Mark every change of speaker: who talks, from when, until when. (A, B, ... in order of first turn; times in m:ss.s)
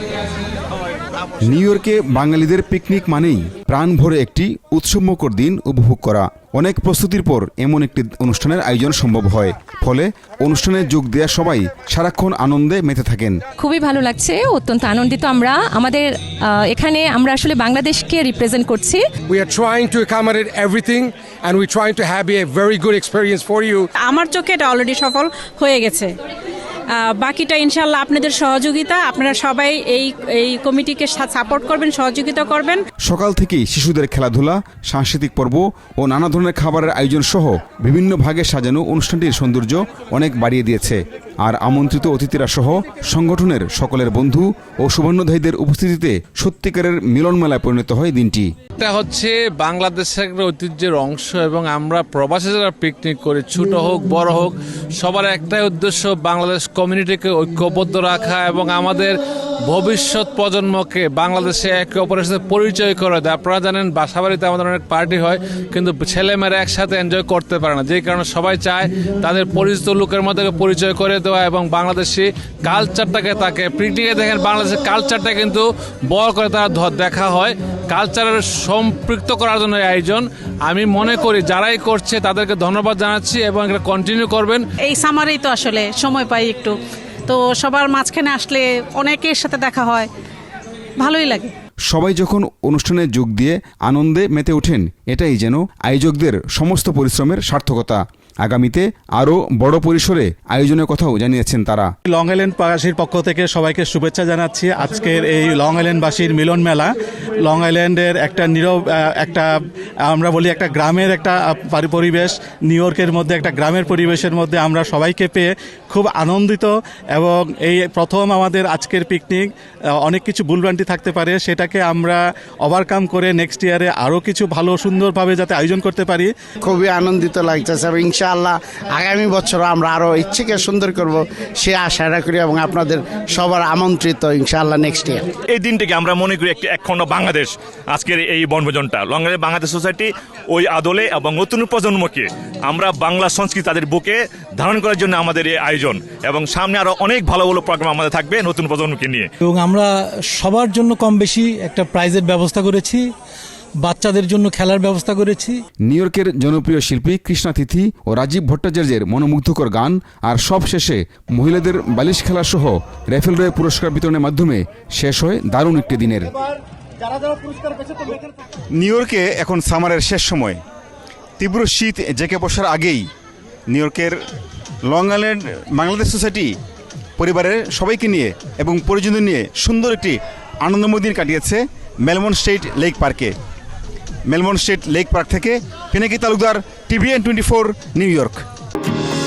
0:01.5-0:13.4 A
0:13.6-0:19.0 B
0:19.3-0:23.9 C
0:24.0-0:26.1 D
0:26.9-0:32.8 D
0:33.0-0:48.5 A
0:48.8-1:24.6 E
1:24.9-1:30.1 D
1:31.0-1:31.5 D
1:31.9-1:41.9 A
1:42.1-1:46.9 F
1:47.4-1:49.5 F
1:50.0-1:59.5 F
2:00.0-2:06.3 F
2:06.6-2:15.2 G
2:15.5-2:29.3 H
2:29.4-2:33.0 I
2:33.8-2:35.6 I
2:35.9-2:46.3 A
2:48.8-2:50.6 A
2:51.4-2:53.0 A
2:53.7-2:54.2 A
2:54.9-2:56.5 A
2:57.2-3:03.3 A
3:04.3-3:08.4 A